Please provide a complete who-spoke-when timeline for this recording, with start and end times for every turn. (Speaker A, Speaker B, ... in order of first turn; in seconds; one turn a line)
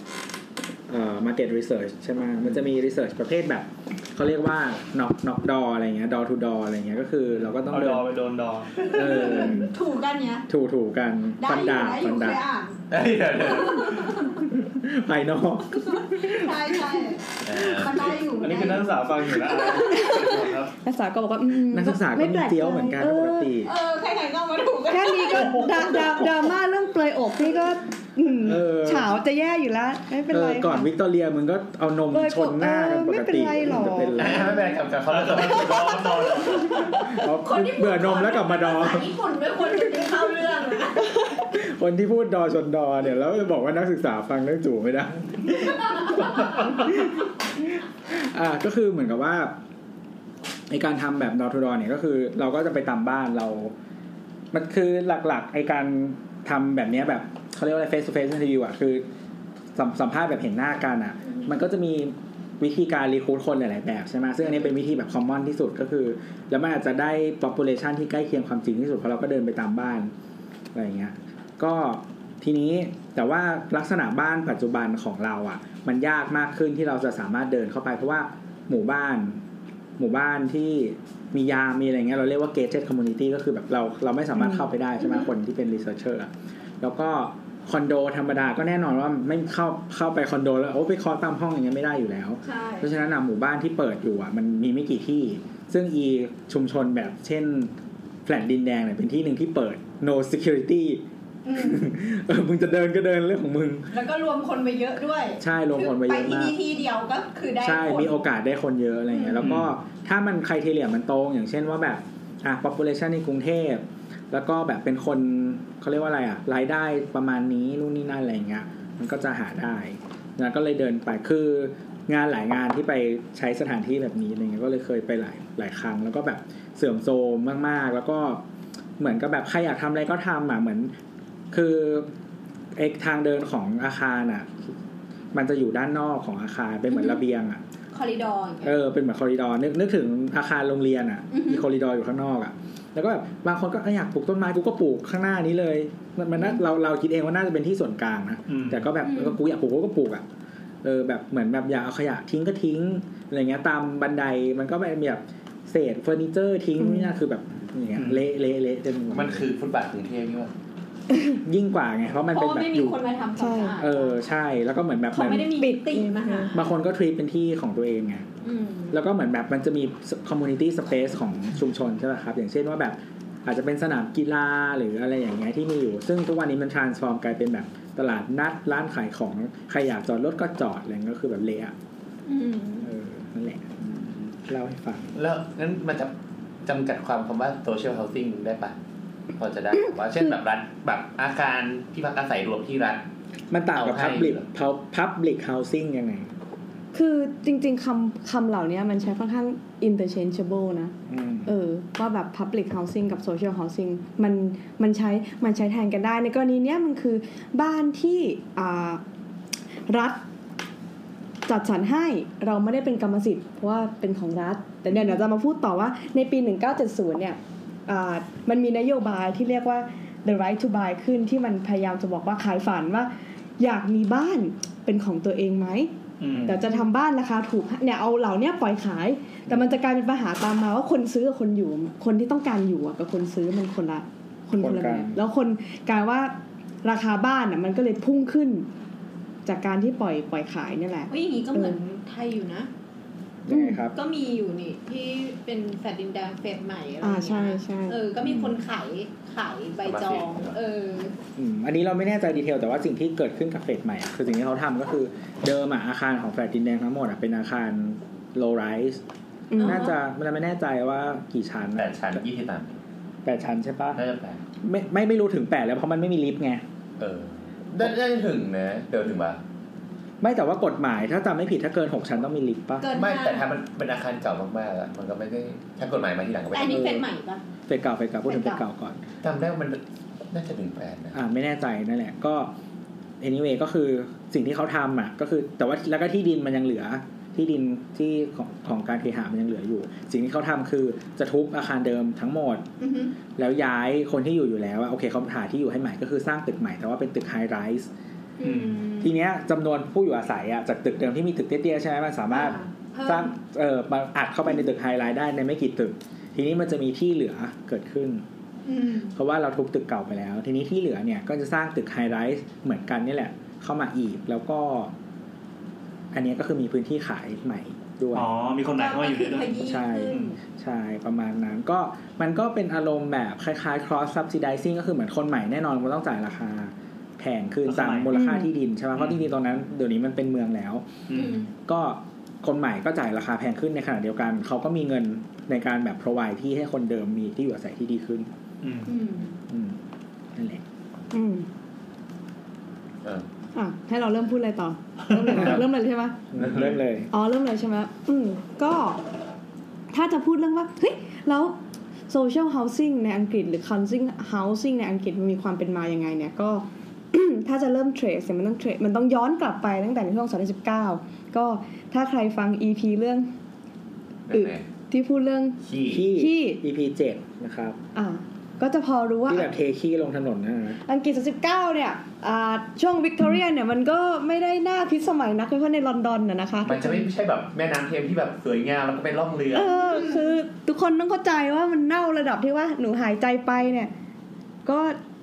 Speaker A: 0.9-8.1
Speaker B: 7.7-8.7
Speaker C: 8.8-10.5
Speaker A: 8.9-9.7
Speaker A: 10.5-12.4
Speaker C: 11.4-12.8
Speaker D: 12.9-14.2
Speaker C: 13.5-14.4
Speaker A: 14.4-16.5
Speaker C: 15.9-20.1
Speaker D: 17.4-18.2
Speaker B: 18.3-20.7
Speaker E: 19.9-23.5
Speaker A: 21.7-23.7
Speaker C: 23.6-26.4
Speaker E: 24.9-30.9
Speaker B: 25.4-26.0
Speaker A: 28.4-29.1
Speaker A: 30.3-34.7
Speaker E: 32.1-34.2
Speaker D: 34.2-36.4
Speaker B: 35.1-36.8
Speaker A: 37.0-39.1
Speaker C: 37.4-41.1
Speaker A: 41.5-47.2
Speaker A: 48.1-49.6
Speaker A: 50.7-53.7
Speaker A: 54.5-59.0
Speaker A: 59.8-70.1
Speaker A: 70.7-79.4
Speaker A: 80.0-86.3
Speaker A: 86.8-97.7
Speaker C: 92.4-92.9
Speaker A: 98.3-103.9
Speaker C: 101.5-101.8
Speaker C: 103.9-108.2
Speaker A: 105.4-106.6
Speaker A: 107.6-128.4
Speaker C: 109.1-109.5
Speaker B: 109.4-109.7
Speaker A: 129.0-130.9
Speaker A: 131.5-132.1
Speaker A: 132.8-134.6
Speaker A: 135.3-137.6
Speaker C: 137.9-138.7
Speaker A: 138.6-150.2
Speaker C: 141.3-141.6
Speaker B: 148.5-148.9
Speaker C: 149.0-149.4
Speaker A: 150.8-159.5
Speaker E: 156.8-157.1
Speaker B: 158.0-158.2
Speaker D: 159.1-160.5
Speaker A: 161.3-163.0
Speaker C: 162.3-164.2
Speaker E: 163.4-163.8
Speaker A: 163.8-165.6
Speaker C: 165.1-166.5
Speaker E: 165.2-166.5
Speaker A: 166.5-168.3
Speaker C: 168.4-168.9
Speaker A: 168.9-181.7
Speaker C: 182.3-182.9
Speaker A: 182.8-185.2
Speaker D: 185.2-186.1
Speaker D: 186.6-188.8
Speaker D: 189.4-193.0
Speaker A: 193.5-196.3
Speaker D: 193.7-194.4
Speaker E: 196.9-200.9
Speaker A: 201.1-201.5
Speaker E: 201.5-209.0
Speaker E: 209.9-210.2
Speaker E: 211.5-238.7
Speaker B: 226.2-226.6
Speaker A: 226.3-226.6
Speaker A: 234.6-235.2
Speaker E: 239.4-241.8
Speaker C: 241.1-242.7
Speaker A: 243.5-244.0
Speaker E: 243.5-243.8
Speaker C: 243.9-251.1
Speaker E: 247.0-248.0
Speaker A: 248.2-248.6
Speaker D: 249.8-250.6
Speaker A: 251.4-259.0
Speaker E: 259.5-259.9
Speaker A: 259.6-262.2
Speaker C: 259.6-259.9
Speaker D: 261.8-262.8
Speaker A: 263.2-264.0
Speaker D: 264.0-264.4
Speaker A: 264.6-266.6
Speaker D: 267.0-269.4
Speaker A: 270.2-272.9
Speaker C: 272.8-273.5
Speaker D: 272.9-276.9
Speaker C: 276.5-277.4
Speaker A: 276.7-277.1
Speaker A: 277.7-279.0
Speaker C: 278.3-278.6
Speaker D: 279.2-279.8
Speaker D: 280.3-281.2
Speaker A: 281.1-282.5
Speaker A: 283.2-292.7
Speaker C: 292.8-293.1
Speaker A: 293.4-297.9
Speaker C: 298.4-299.1
Speaker B: 298.4-298.9
Speaker A: 299.0-308.2
Speaker C: 302.3-303.3
Speaker C: 308.7-309.1
Speaker A: 309.1-314.9
Speaker A: 316.1-318.3
Speaker B: 318.1-320.3
Speaker C: 318.7-320.4
Speaker A: 319.6-330.9
Speaker B: 327.7-328.1
Speaker E: 328.1-328.5
Speaker B: 329.0-329.3
Speaker B: 331.1-331.4
Speaker C: 331.1-331.5
Speaker A: 331.6-338.3
Speaker B: 338.6-338.9
Speaker C: 338.9-339.3
Speaker A: 339.5-339.8
Speaker A: 340.3-340.6
Speaker E: 341.1-341.5
Speaker E: 343.6-346.2
Speaker A: 346.3-347.1
Speaker D: 346.4-346.8
Speaker E: 347.1-349.0
Speaker E: 349.9-351.6
Speaker E: 352.1-363.3
Speaker D: 364.3-364.6
Speaker E: 364.3-365.6
Speaker D: 365.6-366.1
Speaker A: 365.9-367.8
Speaker E: 366.1-366.6
Speaker E: 367.9-369.5
Speaker A: 369.3-370.8
Speaker E: 370.9-377.1
Speaker D: 376.6-379.8
Speaker E: 379.5-383.9
Speaker E: 384.6-385.0